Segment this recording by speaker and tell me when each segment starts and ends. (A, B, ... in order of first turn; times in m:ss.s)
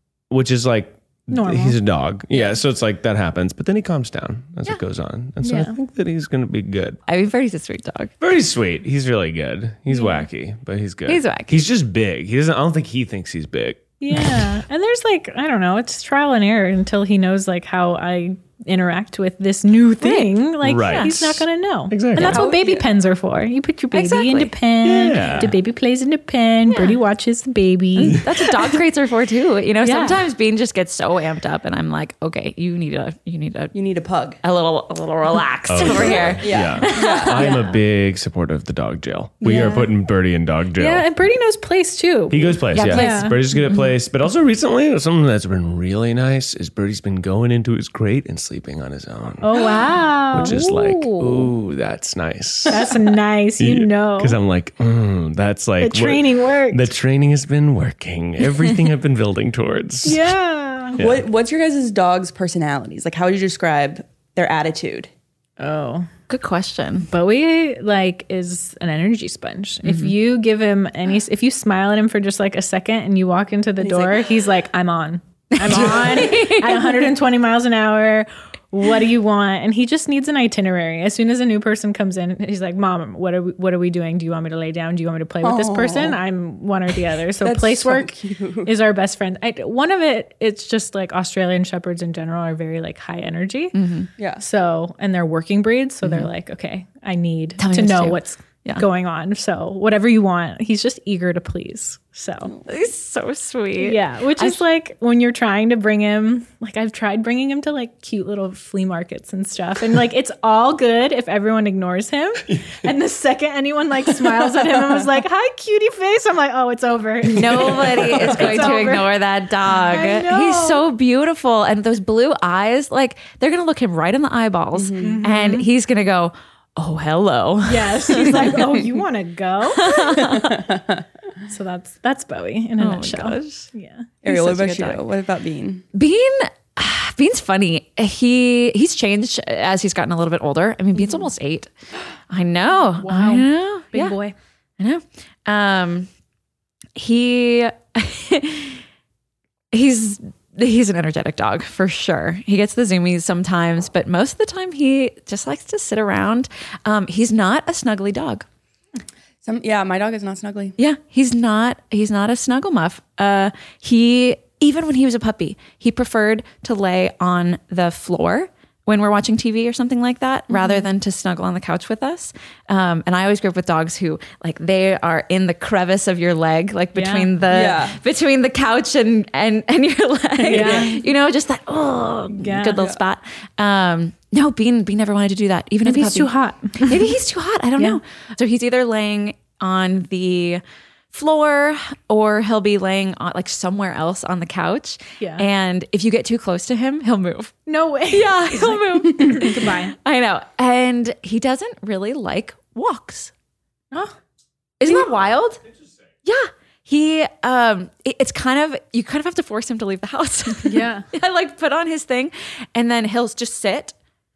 0:00.3-0:07.0 A
0:01.3-0:01.8 B
0:05.4-0:05.7 B
0:07.1-0:08.1 C
0:08.2-0:14.6 A
0:09.9-0:10.2 B
0:11.1-0:11.6 C
0:14.0-0:28.7 B
0:20.0-0:20.3 C
0:20.6-0:22.5 A
0:20.8-0:21.2 C
0:22.3-0:22.9 D
0:23.9-0:24.5 C
0:24.8-0:25.6 A
0:26.7-0:27.0 C
0:28.0-0:33.7 C
0:29.8-0:30.2 B
0:33.7-0:34.4 D
0:34.4-0:37.6 C
0:35.7-0:41.0 A
0:35.9-0:37.6 D
0:39.4-0:39.9 B
0:40.8-0:43.4 B
0:42.3-0:52.9 A
0:42.7-0:43.9 C
0:49.4-0:51.5 B
0:52.7-0:54.4 B
0:53.6-1:00.3 A
0:55.8-0:56.9 B
1:00.0-1:01.0 B
1:01.0-1:01.2 A
1:01.0-1:05.1 D
1:05.6-1:06.1 B
1:06.3-1:07.1 C
1:07.1-1:33.7 B
1:09.8-1:10.1 C
1:13.8-1:14.4 D
1:15.5-1:17.1 C
1:25.4-1:26.2 D
1:27.4-1:28.7 D
1:33.7-1:34.1 C
1:34.2-1:34.4 D
1:34.4-1:42.5 B
1:36.0-1:36.3 C
1:37.6-1:38.8 C
1:42.6-1:44.6 C
1:43.8-1:59.1 B
1:54.2-1:55.0 D
1:57.3-2:08.7 C
1:58.0-1:58.9 D
1:59.6-2:00.8 B
2:04.7-2:05.2 D
2:05.0-2:05.7 B
2:07.6-2:10.4 B
2:09.7-2:10.6 C
2:10.1-2:11.0 D
2:11.5-2:14.1 B
2:12.8-2:13.7 C
2:14.2-2:15.8 D
2:14.2-2:15.0 C
2:15.9-2:21.7 C
2:22.3-2:24.2 C
2:23.0-2:24.3 B
2:24.8-2:26.1 C
2:27.0-2:28.8 C
2:29.7-2:38.4 C
2:39.4-2:40.8 D
2:40.8-3:10.6 C
2:56.9-2:57.3 B
2:57.5-2:58.0 D
3:00.4-3:01.0 D
3:00.4-3:01.0 B
3:02.4-3:02.8 B
3:05.8-3:07.1 B
3:11.1-3:17.6 C
3:15.2-3:15.4 B
3:17.6-3:19.9 B
3:18.1-3:23.3 C
3:24.8-3:25.6 C
3:26.2-3:33.9 C
3:30.6-3:31.1 B